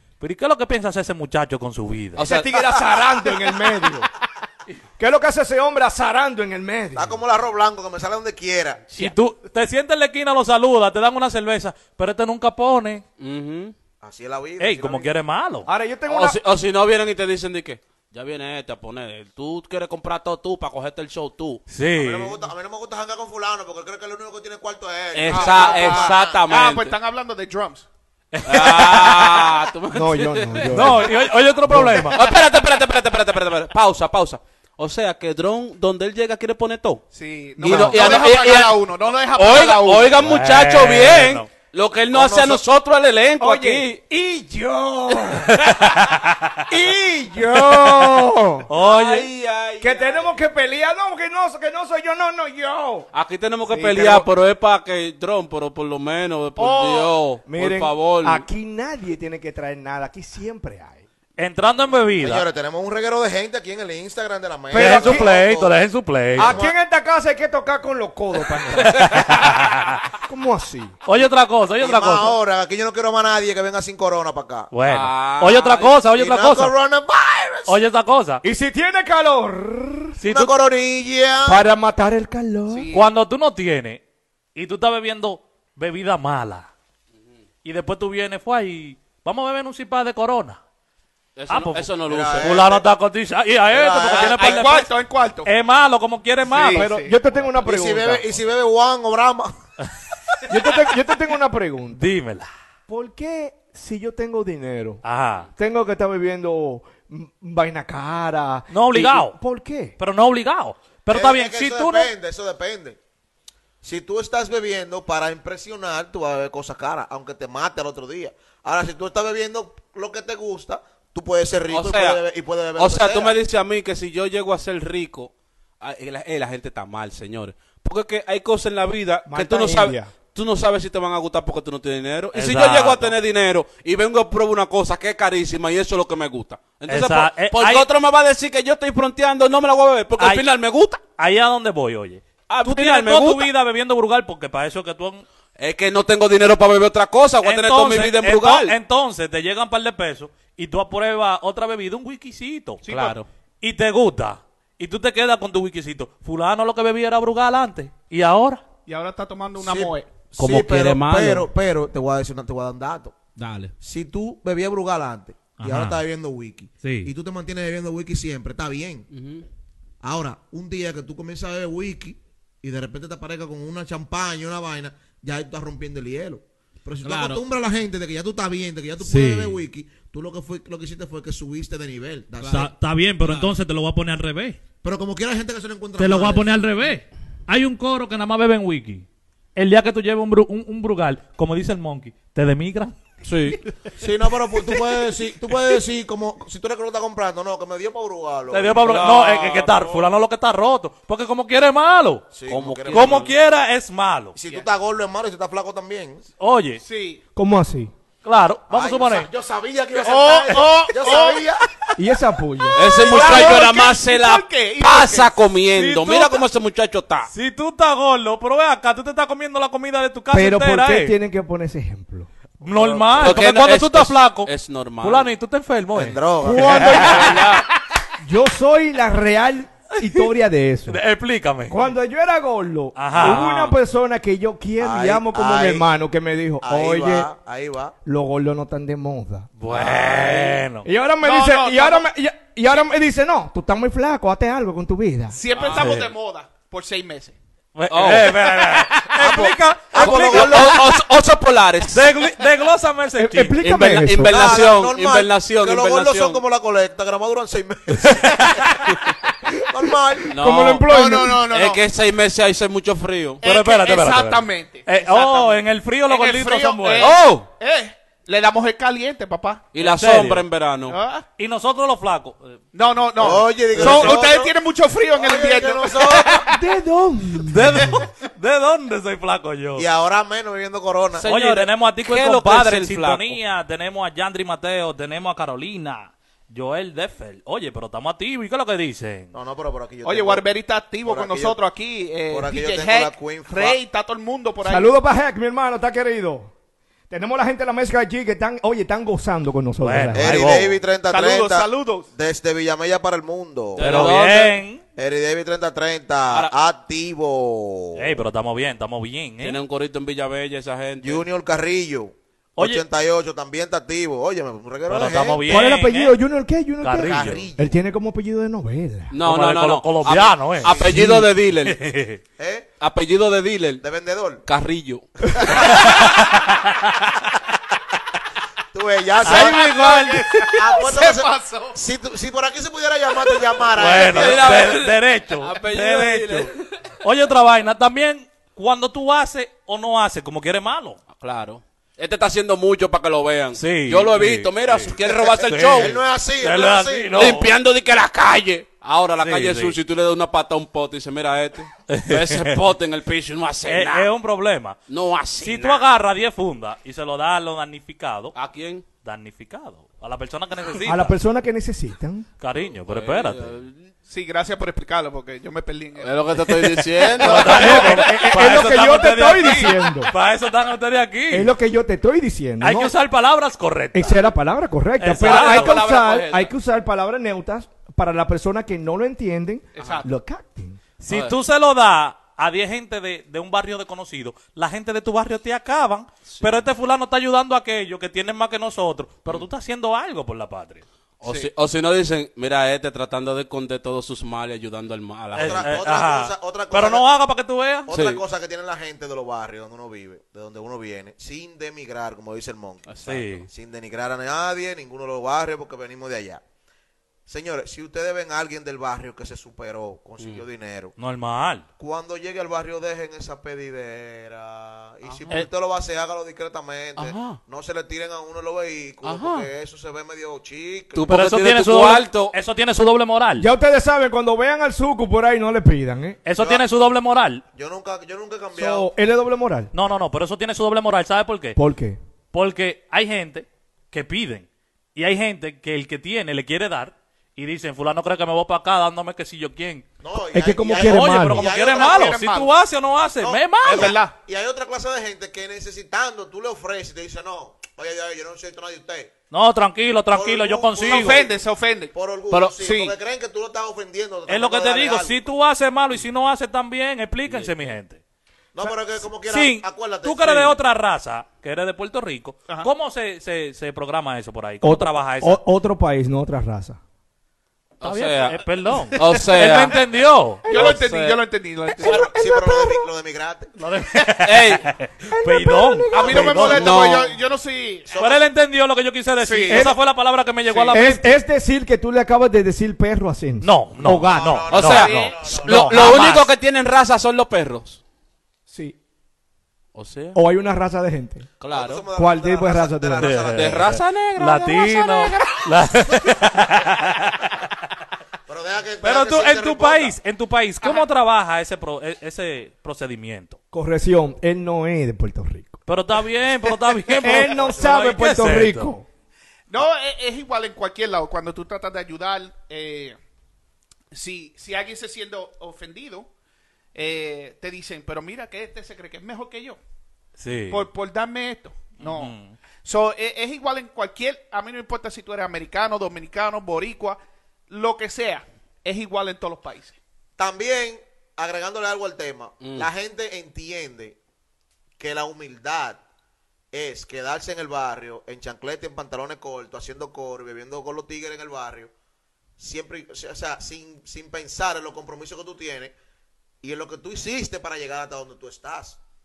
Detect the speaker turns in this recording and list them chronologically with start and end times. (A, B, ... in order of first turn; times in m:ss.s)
0:00.2-0:02.4 A
0:02.2-0:03.0 B
0:02.2-0:04.1 C
0:05.0-0:07.1 C
0:06.9-0:08.8 D
0:08.9-0:13.0 A
0:13.2-0:13.7 B
0:14.0-0:15.1 D
0:14.6-0:15.7 A
0:15.6-0:16.4 C
0:16.1-0:21.6 B
0:21.7-0:22.4 A
0:22.0-0:26.4 D
0:25.1-0:26.9 B
0:25.3-0:27.8 E
0:28.3-0:29.5 A
0:28.4-0:31.2 B
0:29.9-0:32.1 C
0:30.7-0:32.3 A
0:32.1-0:37.0 B
0:37.1-0:40.3 E
0:37.6-0:38.2 C
0:37.6-0:44.0 B
0:40.2-0:41.5 A
0:42.1-0:42.6 D
0:43.4-0:45.7 C
0:45.4-0:46.6 A
0:46.7-0:48.6 C
0:48.7-0:49.3 A
0:48.8-0:50.3 B
0:49.8-0:53.0 C
0:53.1-0:58.4 B
0:53.7-0:54.1 E
0:53.7-0:54.2 C
0:56.6-0:57.1 E
0:57.4-1:01.0 C
1:01.4-1:02.4 A
1:02.2-1:05.7 D
1:04.7-1:05.3 C
1:04.7-1:06.6 A
1:06.4-1:09.5 C
1:06.4-1:06.7 D
1:08.8-1:10.0 A
1:09.1-1:09.4 B
1:10.2-1:11.0 C
1:11.0-1:12.3 A
1:11.1-1:14.7 D
1:14.7-1:16.7 A
1:14.8-1:16.0 B
1:16.1-1:17.8 D
1:17.7-1:18.4 A
1:18.4-1:20.2 C
1:20.2-1:20.5 A
1:20.2-1:21.6 D
1:21.4-1:22.9 C
1:22.7-1:23.1 E
1:22.9-1:24.0 A
1:24.5-1:26.7 A
1:27.6-1:30.6 A
1:31.4-1:32.6 B
1:31.5-1:34.9 A
1:32.1-1:32.8 D
1:33.7-1:34.7 D
1:34.1-1:35.5 E
1:35.4-1:36.9 A
1:36.4-1:37.2 E
1:36.5-1:38.2 C
1:37.5-1:39.5 D
1:40.5-1:42.0 C
1:41.9-1:42.5 A
1:42.9-1:45.0 C
1:45.0-1:45.5 A
1:45.6-1:50.0 C
1:48.7-1:49.4 A
1:50.0-1:52.1 A
1:51.1-1:53.0 D
1:53.8-2:03.4 D
2:01.7-2:02.2 B
2:02.8-2:21.0 B
2:09.3-2:10.1 C
2:12.3-2:13.1 A
2:16.9-2:17.9 A
2:20.2-2:20.5 A
2:21.2-2:25.2 A
2:22.5-2:23.5 B
2:25.6-2:28.7 B
2:27.4-2:32.8 A
2:32.8-2:33.2 E
2:32.8-2:33.3 B
2:33.6-2:38.6 A
2:38.9-2:40.1 E
2:39.6-2:43.1 D
2:40.4-2:41.5 B
2:43.4-2:43.7 B
2:43.8-2:49.0 D
2:45.6-2:46.0 A
2:46.8-2:47.1 A
2:49.1-2:49.4 B
2:50.0-3:02.7 D
2:57.0-2:57.4 B
2:59.0-2:59.6 A
3:02.4-3:02.7 B
3:02.5-3:04.6 A
3:03.2-3:03.5 B
3:04.8-3:06.6 D
3:06.0-3:09.0 A
3:09.6-3:13.0 A
3:13.2-3:13.6 B
3:14.0-3:19.1 D
3:18.5-3:22.2 A
3:18.8-3:20.1 E
3:22.3-3:23.3 D
3:22.5-3:23.3 B
3:22.9-3:24.4 A
3:24.3-3:26.2 D
3:26.4-3:26.8 A
3:26.8-3:27.2 E
3:27.3-3:27.9 C
3:28.2-3:29.3 A
3:28.7-3:31.6 D
3:29.9-3:31.5 E
3:30.5-3:30.9 A
3:32.0-3:32.8 C
3:32.7-3:37.3 B
3:32.8-3:35.3 E
3:33.1-3:33.4 A
3:35.8-3:36.4 A
3:37.3-3:41.2 A
3:40.3-3:43.3 C
3:42.6-3:44.5 A
3:43.1-3:45.3 B
3:45.0-3:47.5 A
3:45.9-3:47.1 D
3:46.4-3:47.6 C
3:46.9-3:47.6 B
3:48.2-3:51.0 C
3:50.0-3:50.3 A
3:50.9-3:51.9 A
3:51.7-3:57.3 C
3:52.9-3:53.5 A
3:53.1-3:53.8 B
3:54.8-3:55.9 D
3:56.6-3:57.9 D
3:58.0-3:59.5 C
3:59.6-4:00.9 A
3:59.7-4:00.4 D
3:59.8-4:00.5 E
4:00.1-4:00.4 B
4:00.8-4:05.4 C
4:01.2-4:02.1 E
4:05.3-4:07.4 E
4:05.5-4:06.1 B
4:05.7-4:06.1 A
4:07.7-4:10.9 A
4:07.9-4:09.1 B
4:09.2-4:10.9 D
4:09.9-4:12.2 B
4:11.9-4:13.6 A
4:13.2-4:14.4 C
4:13.6-4:16.4 B
4:14.2-4:18.8 D
4:18.0-4:18.9 A
4:19.7-4:21.8 D
4:20.2-4:21.4 C
4:20.3-4:20.9 B
4:21.5-4:23.4 B
4:23.4-4:27.2 A
4:23.4-4:29.7 E
4:27.0-4:27.5 B
4:29.7-4:31.0 B
4:29.8-4:30.4 A
4:30.9-4:31.2 E
4:31.4-4:32.6 A
4:32.7-4:36.6 E
4:33.2-4:34.5 D
4:33.8-4:34.1 A
4:35.1-4:36.5 D
4:36.5-4:38.0 C
4:37.4-4:39.8 A
4:39.8-4:41.2 D
4:41.2-4:43.4 B
4:41.2-4:49.3 A
4:49.3-4:50.4 D
4:50.0-4:54.9 E
4:51.0-4:51.6 D
4:52.3-4:53.8 D
4:54.6-4:56.5 C
4:57.1-5:00.4 C
4:59.8-5:00.8 A
5:00.1-5:04.1 D
5:01.1-5:02.1 E
5:03.8-5:04.6 B
5:03.8-5:04.8 A
5:05.0-5:08.2 D
5:06.3-5:06.5 B
5:08.0-5:09.6 A
5:09.4-5:11.2 B
5:11.0-5:15.5 D
5:12.6-5:12.8 A
5:14.9-5:16.2 A
5:15.5-5:19.1 C
5:16.8-5:17.4 A
5:17.0-5:17.8 D
5:19.1-5:21.8 B
5:19.2-5:21.1 A
5:20.6-5:21.0 D
5:21.0-5:21.3 C
5:21.6-5:22.2 A
5:22.4-5:22.6 D
5:22.8-5:23.8 B
5:23.8-5:24.4 D
5:24.4-5:25.7 B
5:25.4-5:26.0 D
5:25.5-5:27.2 A
5:28.7-5:34.7 D
5:29.2-5:30.7 A
5:29.2-5:31.8 E
5:33.7-5:41.0 A
5:34.0-5:36.7 B
5:41.1-5:46.0 B
5:43.6-5:47.5 A
5:45.1-5:47.4 D
5:47.1-5:54.1 B
5:49.2-5:49.8 A
5:51.9-5:52.6 A
5:53.6-5:54.8 A
5:54.9-5:55.9 B
5:55.4-5:58.3 A
5:58.3-5:58.8 B
5:59.0-6:01.2 A
6:00.8-6:02.3 C
6:02.4-6:03.6 A
6:02.7-6:03.9 B
6:04.1-6:06.5 E
6:06.0-6:08.1 B
6:06.6-6:11.5 A
6:07.2-6:08.7 E
6:07.3-6:10.1 C
6:09.4-6:09.7 E
6:11.3-6:13.0 C
6:12.6-6:14.3 A
6:13.9-6:20.8 C
6:15.0-6:15.9 A
6:15.1-6:16.5 B
6:19.7-6:20.1 E
6:19.8-6:20.0 B
6:21.0-6:30.8 A
6:21.1-6:21.4 B
6:26.2-6:26.6 B
6:31.2-6:35.7 B
6:31.2-6:31.5 E
6:35.3-6:37.9 A
6:35.4-6:37.0 D
6:37.8-6:46.4 D
6:37.9-6:38.2 B
6:42.9-6:43.3 B
6:43.0-6:43.4 A
6:47.3-6:50.9 D
6:51.0-6:51.6 A
6:51.8-7:01.1 D
6:55.1-6:55.4 B
6:57.0-6:57.4 B
6:59.0-6:59.5 B
7:00.9-7:02.4 B
7:01.0-7:03.5 A
7:03.4-7:06.2 C
7:06.2-7:07.4 A
7:06.4-7:06.6 D
7:07.5-7:08.9 D
7:08.5-7:09.7 C
7:09.7-7:11.6 A
7:11.6-7:12.0 C
7:12.3-7:19.8 A
7:20.0-7:22.2 D
7:20.3-7:21.5 C
7:20.7-7:24.0 A
7:21.5-7:22.5 E
7:23.2-7:29.1 D
7:23.6-7:24.1 E
7:29.3-7:31.2 A
7:30.1-7:31.4 D
7:30.8-7:31.9 E
7:31.9-7:35.2 D
7:32.3-7:32.6 B
7:32.6-7:32.9 E
7:34.3-7:38.0 A
7:37.3-7:37.7 B
7:38.5-7:40.6 D
7:39.3-7:45.4 A
7:44.6-7:46.8 C
7:47.8-7:49.8 B
7:47.8-7:50.4 A
7:50.4-7:50.8 C
7:50.4-7:52.0 E
7:50.5-7:51.2 B
7:51.7-7:52.9 C
7:51.8-7:53.6 D
7:53.6-7:56.8 A
7:54.2-7:54.7 B
7:55.1-7:56.6 C
7:55.9-7:58.0 E
7:56.4-7:57.2 B
7:57.9-7:58.3 D
7:58.0-8:01.1 A
7:59.2-7:59.8 E
7:59.5-7:59.8 C
8:00.4-8:00.8 E
8:00.7-8:04.1 C
8:03.4-8:06.3 A
8:03.8-8:05.8 D
8:04.5-8:07.8 B
8:04.6-8:05.2 E
8:05.4-8:05.8 C
8:08.5-8:08.8 C
8:09.7-8:10.2 B
8:10.1-8:11.3 C
8:11.4-8:11.8 B
8:11.5-8:13.8 D
8:11.9-8:13.3 C
8:13.0-8:17.4 A
8:13.3-8:15.4 B
8:18.3-8:20.0 D
8:18.8-8:23.4 A
8:20.6-8:20.9 E
8:23.5-8:25.6 C
8:25.7-8:28.7 A
8:26.5-8:28.8 C
8:27.4-8:27.7 D
8:29.5-8:33.0 E
8:33.9-8:36.1 E
8:36.7-8:39.6 E
8:40.2-8:40.7 A
8:40.5-8:47.0 E
8:41.8-8:42.4 A
8:47.5-8:49.8 E
8:50.2-8:54.0 D
8:52.4-8:52.7 B
8:54.8-8:55.8 D
8:56.5-9:01.7 D
9:02.4-9:05.7 D
9:06.4-9:08.8 D